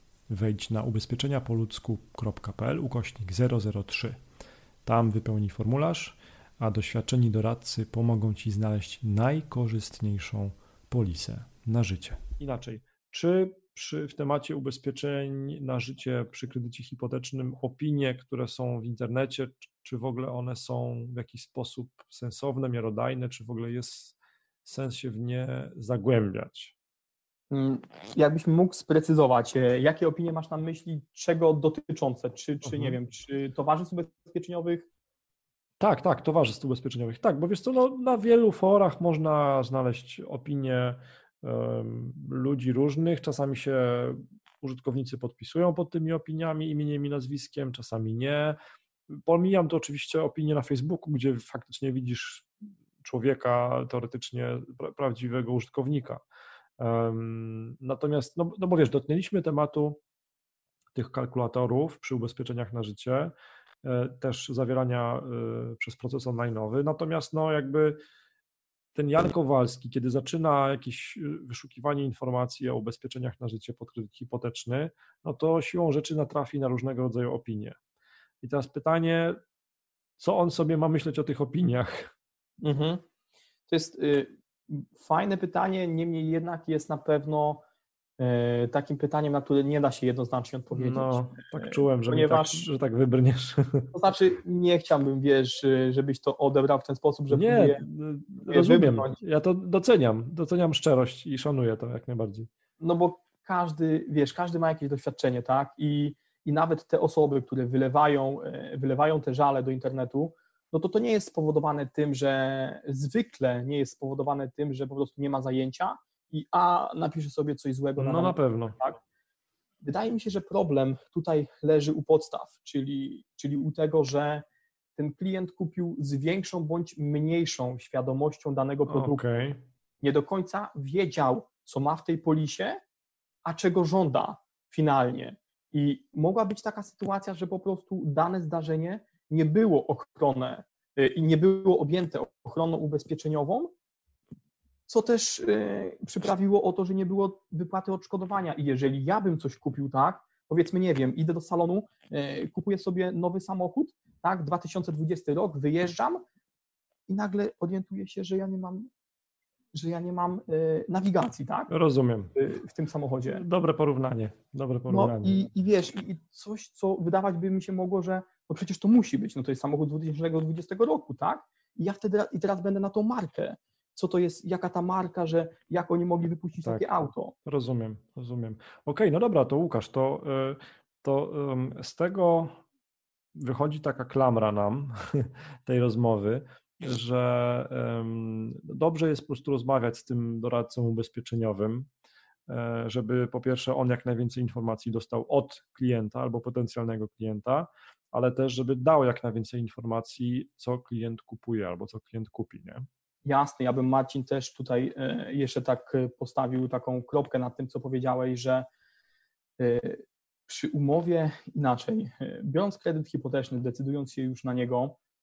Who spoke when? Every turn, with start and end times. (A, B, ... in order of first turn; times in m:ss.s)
0:00.3-0:04.2 A
0:04.8-0:26.7 A
0:27.5-0:34.9 B
0:32.6-0:33.0 A
0:35.8-0:48.6 A
0:49.1-0:56.2 A
0:56.8-1:00.0 A
1:00.9-1:08.0 A
1:08.9-1:17.8 A
1:18.4-1:19.4 A
1:20.2-1:22.1 A
1:22.6-1:23.0 B
1:23.7-1:27.6 B
1:28.2-1:32.7 B
1:30.7-1:33.9 A
1:33.9-1:37.8 B
1:37.3-1:42.5 A
1:38.4-1:39.2 B
1:42.8-1:59.0 B
1:58.0-1:58.8 A
1:59.8-2:04.4 B
2:05.0-2:09.2 B
2:08.9-2:09.6 A
2:10.0-2:12.8 B
2:13.4-2:23.7 B
2:24.9-2:36.2 B
2:37.1-2:38.9 B
2:39.7-2:41.7 B
2:41.7-2:42.3 A
2:42.4-2:43.4 B
2:43.3-2:45.5 A
2:44.9-2:57.3 B
2:57.4-3:02.6 A
3:03.3-3:11.9 A
3:12.5-3:22.8 A
3:23.2-3:28.7 B
3:29.6-3:35.0 B